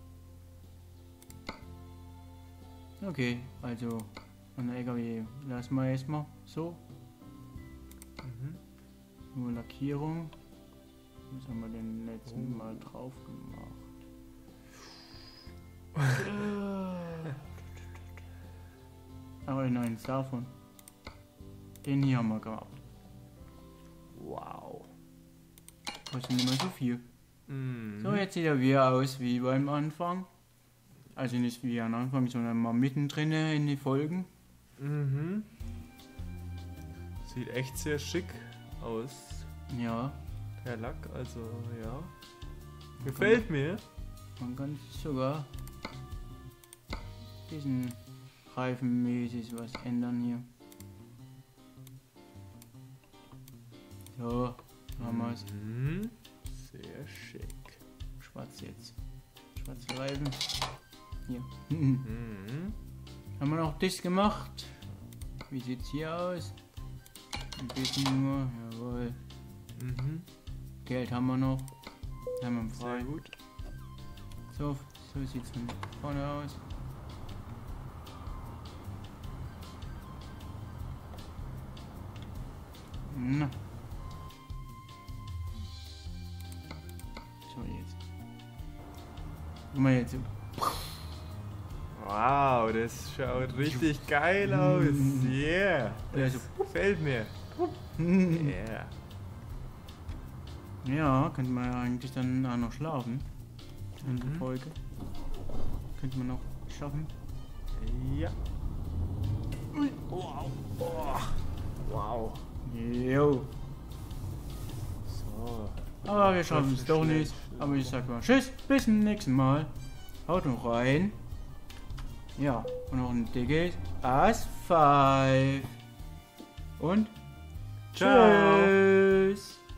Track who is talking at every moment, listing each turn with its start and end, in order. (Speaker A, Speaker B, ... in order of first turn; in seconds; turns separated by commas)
Speaker A: 3.0-6.8, Speaker B: 8.2-8.6, Speaker A: 9.3-10.3, Speaker A: 11.3-13.8, Speaker B: 12.3-12.6, Speaker A: 16.1-17.4, Speaker A: 19.4-20.5, Speaker A: 21.8-22.8, Speaker B: 24.1-24.9, Speaker A: 26.1-27.0, Speaker B: 27.5-28.2, Speaker A: 28.0-30.3, Speaker A: 31.1-34.3, Speaker B: 34.8-35.5, Speaker B: 37.2-39.5, Speaker A: 39.7-40.2, Speaker B: 40.6-42.1, Speaker A: 43.0-43.4, Speaker B: 43.0-43.8, Speaker A: 44.4-45.5, Speaker A: 47.5-50.5, Speaker A: 54.1-55.5, Speaker B: 55.0-57.8, Speaker A: 58.2-58.9, Speaker A: 59.5-60.4, Speaker A: 61.3-62.0, Speaker B: 62.0-62.8, Speaker A: 63.4-64.8, Speaker A: 65.5-66.5, Speaker A: 67.5-69.2, Speaker B: 69.8-70.3, Speaker A: 70.8-71.7, Speaker A: 72.4-73.1, Speaker B: 72.7-73.3, Speaker A: 74.5-76.6, Speaker A: 83.1-83.5, Speaker A: 87.5-88.0, Speaker A: 89.7-90.9, Speaker B: 91.9-97.3, Speaker A: 94.4-95.4, Speaker A: 96.1-96.7, Speaker A: 97.9-98.5, Speaker B: 98.2-99.0, Speaker A: 100.8-103.3, Speaker B: 104.0-104.5, Speaker A: 104.0-104.8, Speaker A: 106.0-107.1, Speaker B: 107.8-108.4, Speaker B: 110.1-112.5, Speaker A: 112.6-113.5, Speaker B: 115.0-118.0, Speaker A: 116.0-119.7, Speaker A: 120.2-121.2, Speaker A: 122.3-125.7, Speaker A: 126.8-127.1, Speaker B: 127.9-128.8, Speaker A: 127.9-129.6